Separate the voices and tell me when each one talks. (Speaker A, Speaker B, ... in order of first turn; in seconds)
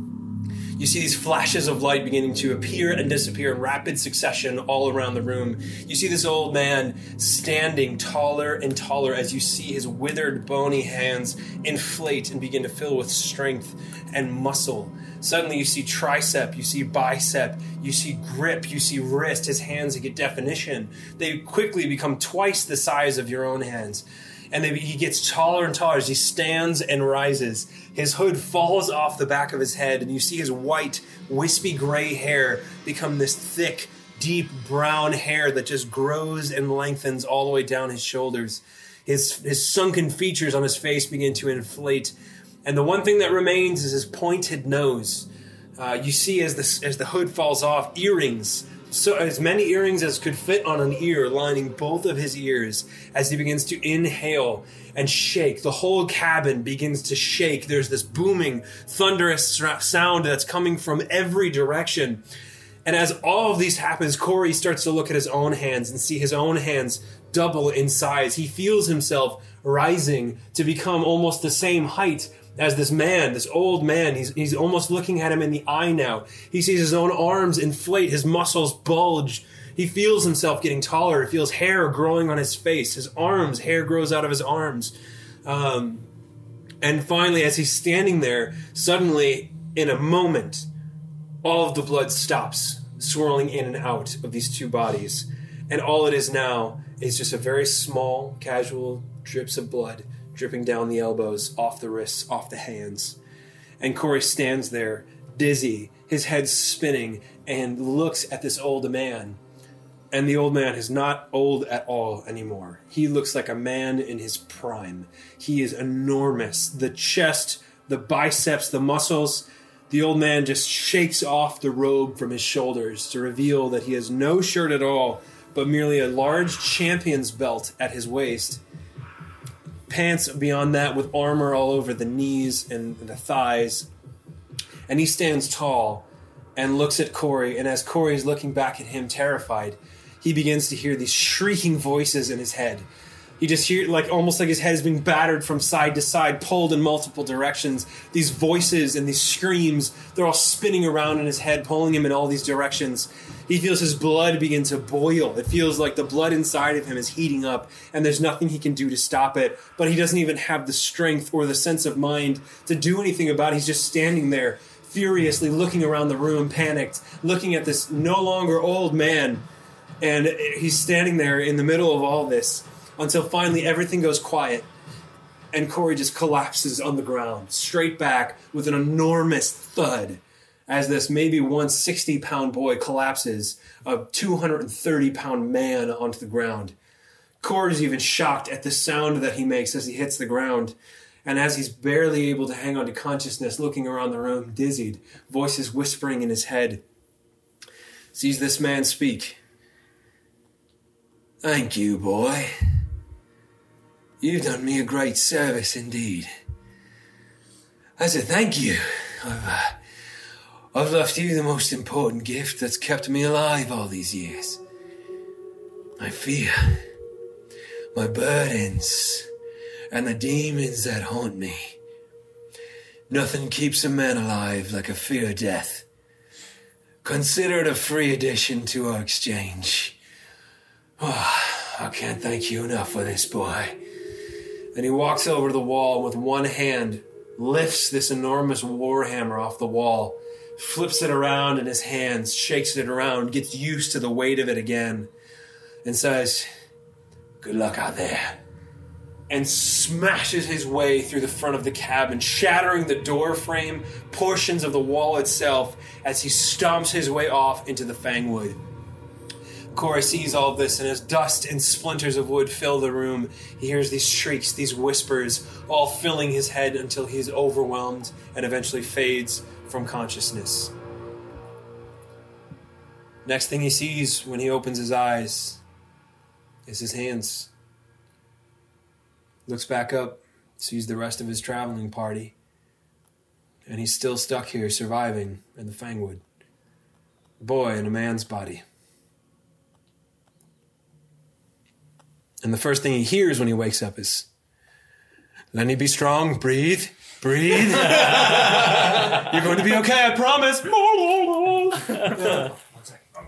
Speaker A: 0.8-62.2, 62.9-86.1, 86.8-90.7, 91.4-103.2, 103.8-109.4, 110.1-128.6, 129.9-133.9, 134.9-142.9, 143.4-169.5, 170.0-174.7, 175.5-186.8, 187.4-196.8, 198.1-199.4, 201.4-202.5, 204.2-206.3, 208.0-209.8, 210.7-214.6, 216.0-216.8, 217.9-219.3, 219.9-221.8, 223.1-225.9, 227.0-230.0, 231.0-233.8, 234.7-245.1, 245.8-246.5, 247.4-248.4, 249.3-258.6, 259.7-270.7, 273.2-275.6, 276.7-277.5, 279.5-282.4, 283.7-286.2, 287.4-288.6, 292.4-294.3, 295.5-302.6